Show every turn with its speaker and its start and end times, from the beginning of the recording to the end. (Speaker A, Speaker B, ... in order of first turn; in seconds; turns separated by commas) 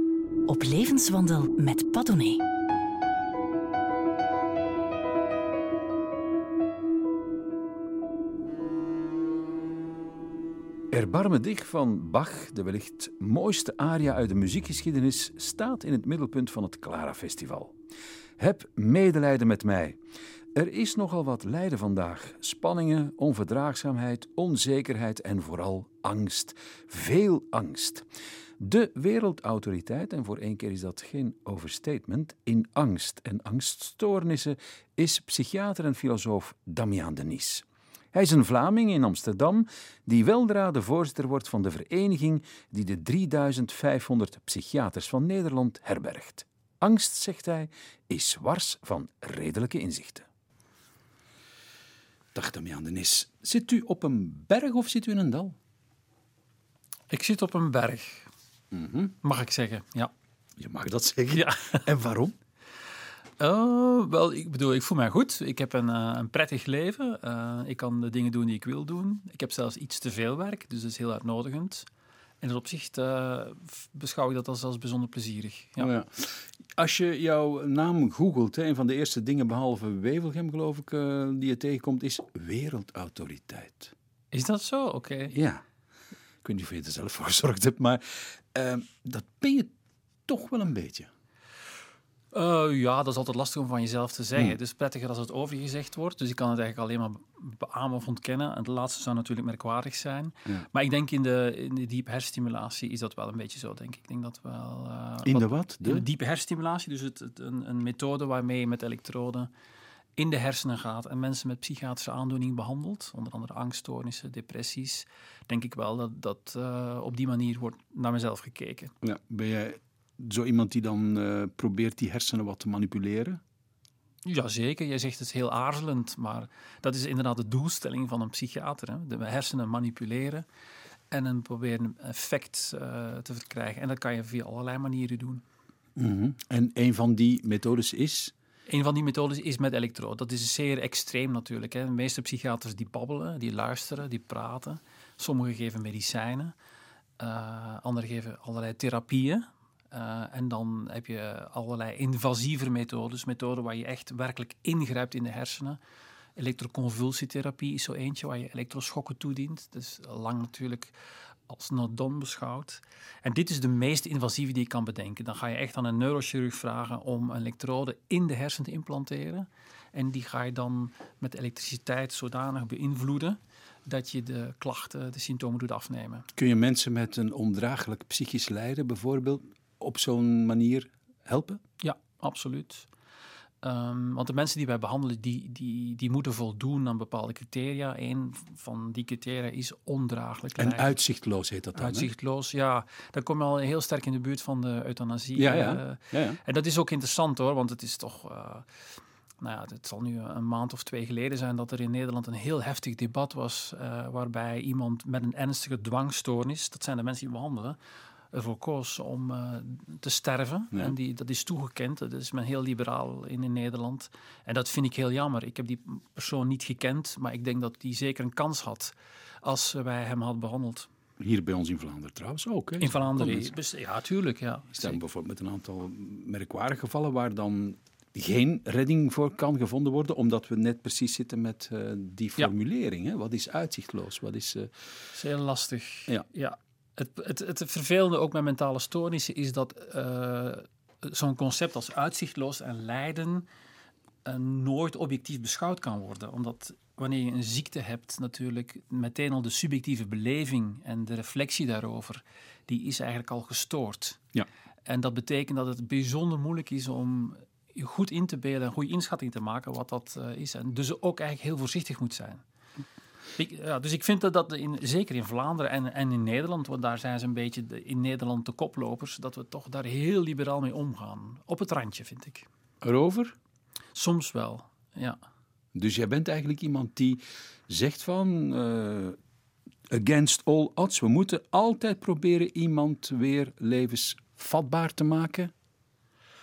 Speaker A: 0.5-2.4, Speaker B: 10.9-17.7, Speaker B: 18.4-20.0, Speaker B: 20.5-28.1, Speaker B: 28.6-50.3, Speaker B: 52.3-55.6, Speaker C: 57.1-58.3, Speaker B: 58.7-59.1, Speaker C: 59.2-60.1, Speaker B: 60.6-62.4, Speaker C: 61.3-61.8, Speaker C: 63.4-71.9, Speaker C: 72.4-75.9, Speaker B: 75.8-83.9, Speaker C: 84.3-85.3, Speaker B: 85.3-85.6, Speaker B: 86.4-89.7, Speaker B: 90.3-91.1, Speaker C: 92.3-109.5, Speaker B: 105.2-106.0, Speaker C: 110.2-118.9, Speaker B: 119.0-123.4, Speaker C: 124.2-130.4, Speaker C: 131.1-135.4, Speaker B: 135.9-138.3, Speaker C: 138.7-146.5, Speaker C: 147.2-155.8, Speaker C: 156.4-160.9, Speaker C: 161.5-176.3, Speaker B: 176.3-181.6, Speaker C: 181.8-182.9, Speaker C: 183.6-190.9, Speaker B: 190.6-192.1, Speaker C: 191.7-198.7, Speaker B: 195.3-196.4, Speaker C: 199.4-207.8, Speaker C: 208.3-220.9, Speaker B: 221.2-223.5, Speaker C: 222.8-225.0, Speaker B: 224.7-234.8, Speaker C: 235.1-243.5, Speaker C: 244.2-254.2, Speaker C: 254.8-262.4, Speaker C: 263.4-272.5, Speaker B: 272.8-273.3, Speaker C: 273.9-275.2, Speaker B: 275.7-279.2, Speaker B: 279.9-285.5